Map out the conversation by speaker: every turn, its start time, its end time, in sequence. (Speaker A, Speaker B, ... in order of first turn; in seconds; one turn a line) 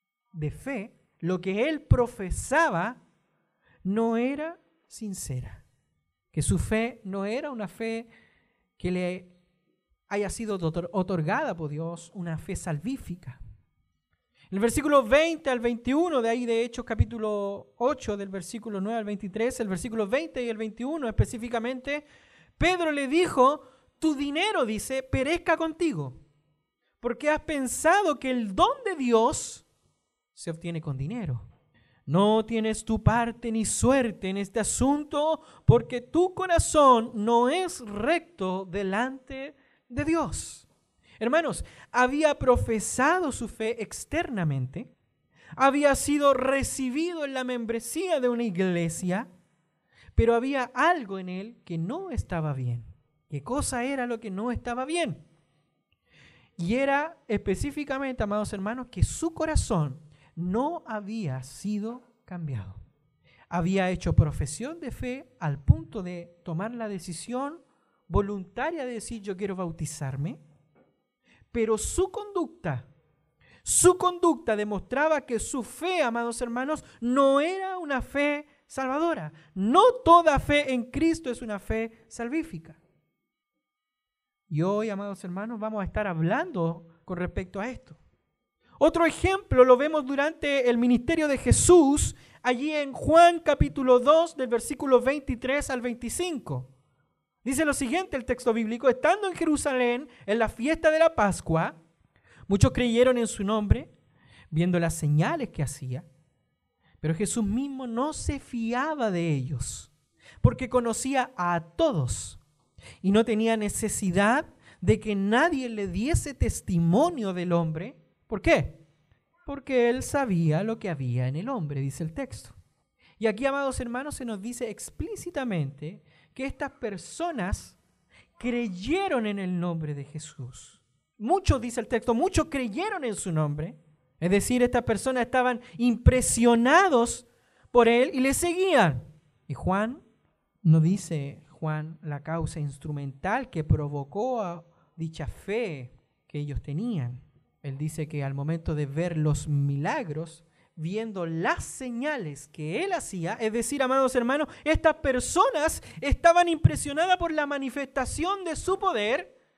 Speaker A: 0.3-3.0
Speaker A: 3.8-5.6
Speaker A: 6.3-8.1
Speaker A: 8.8-9.3
Speaker A: 10.1-13.4
Speaker A: 14.5-22.1
Speaker A: 22.6-26.2
Speaker A: 27.0-29.7
Speaker A: 30.3-31.5
Speaker A: 32.1-40.7
Speaker A: 41.2-44.9
Speaker A: 45.6-49.3
Speaker A: 50.1-55.2
Speaker A: 56.6-62.8
Speaker A: 63.5-70.4
Speaker A: 71.5-72.9
Speaker A: 73.6-82.8
Speaker A: 84.5-88.0
Speaker A: 88.8-96.7
Speaker A: 97.4-101.8
Speaker A: 102.5-103.9
Speaker A: 104.5-106.1
Speaker A: 107.0-112.4
Speaker A: 113.0-118.8
Speaker A: 119.5-122.6
Speaker A: 123.2-127.8
Speaker A: 128.4-140.0
Speaker A: 140.6-159.3